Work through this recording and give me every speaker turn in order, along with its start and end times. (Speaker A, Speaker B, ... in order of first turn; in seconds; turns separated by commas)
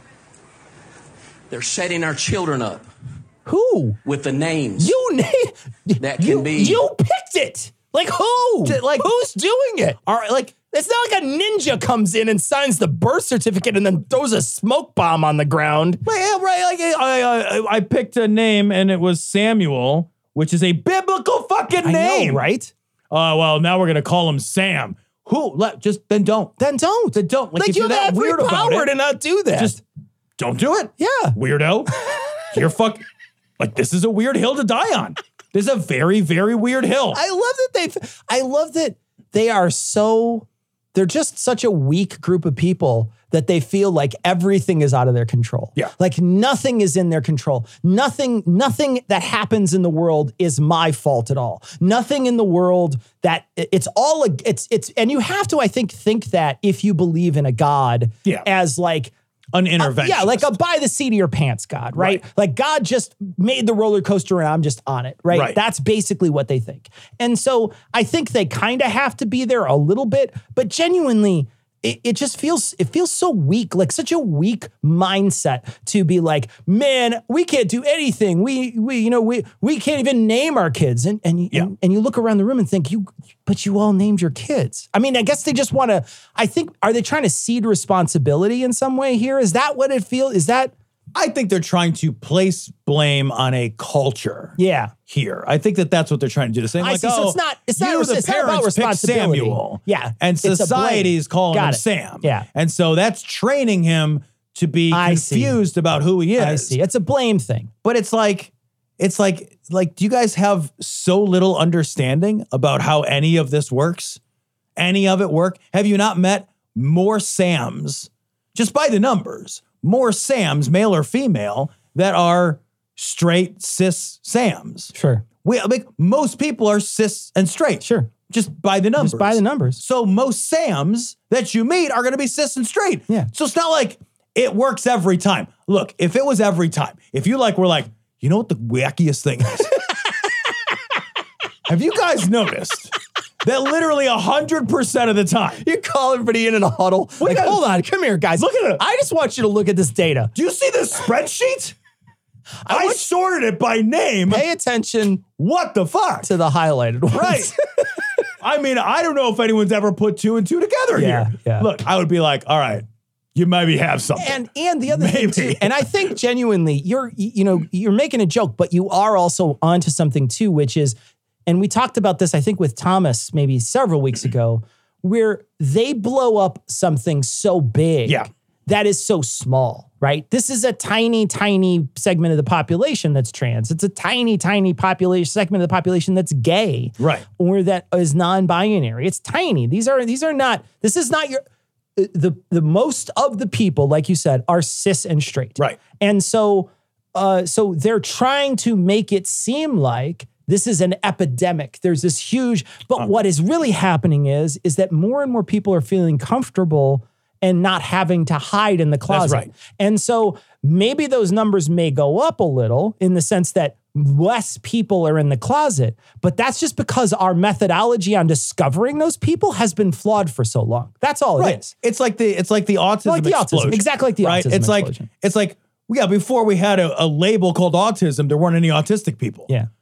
Speaker A: 1.5-2.9, Speaker B: 3.5-4.0, Speaker A: 4.0-5.0, Speaker B: 4.8-10.0, Speaker A: 6.0-6.8, Speaker C: 8.6-9.1, Speaker C: 10.1-10.6, Speaker B: 10.7-16.0, Speaker C: 16.0-22.4, Speaker B: 21.8-22.7, Speaker C: 23.1-26.5, Speaker B: 26.6-29.8, Speaker C: 27.1-28.9, Speaker C: 29.6-29.8, Speaker C: 30.4-31.9, Speaker B: 31.0-31.4, Speaker C: 32.5-33.0, Speaker C: 33.6-37.2, Speaker B: 37.1-59.1, Speaker C: 59.5-60.6, Speaker B: 59.8-90.7, Speaker C: 61.9-62.2, Speaker C: 65.3-65.6, Speaker C: 91.1-94.6, Speaker B: 94.6-94.9, Speaker C: 95.1-106.8, Speaker B: 96.8-102.5, Speaker B: 104.9-105.6, Speaker B: 106.4-107.7, Speaker C: 107.8-114.2, Speaker C: 114.8-139.8, Speaker B: 124.9-125.2, Speaker B: 127.8-128.1, Speaker B: 129.0-129.8, Speaker C: 141.7-145.6, Speaker B: 145.6-150.3, Speaker C: 147.2-147.7, Speaker C: 148.4-148.8, Speaker C: 150.3-151.8, Speaker B: 152.7-153.0, Speaker C: 152.7-154.5, Speaker B: 154.3-155.2, Speaker C: 155.4-156.3, Speaker B: 156.2-157.6, Speaker C: 157.1-157.5, Speaker C: 158.4-166.0, Speaker B: 160.9-161.7, Speaker B: 164.2-191.4, Speaker C: 187.0-187.2, Speaker B: 192.0-221.7, Speaker C: 209.1-209.5, Speaker C: 221.4-229.5, Speaker B: 223.1-225.1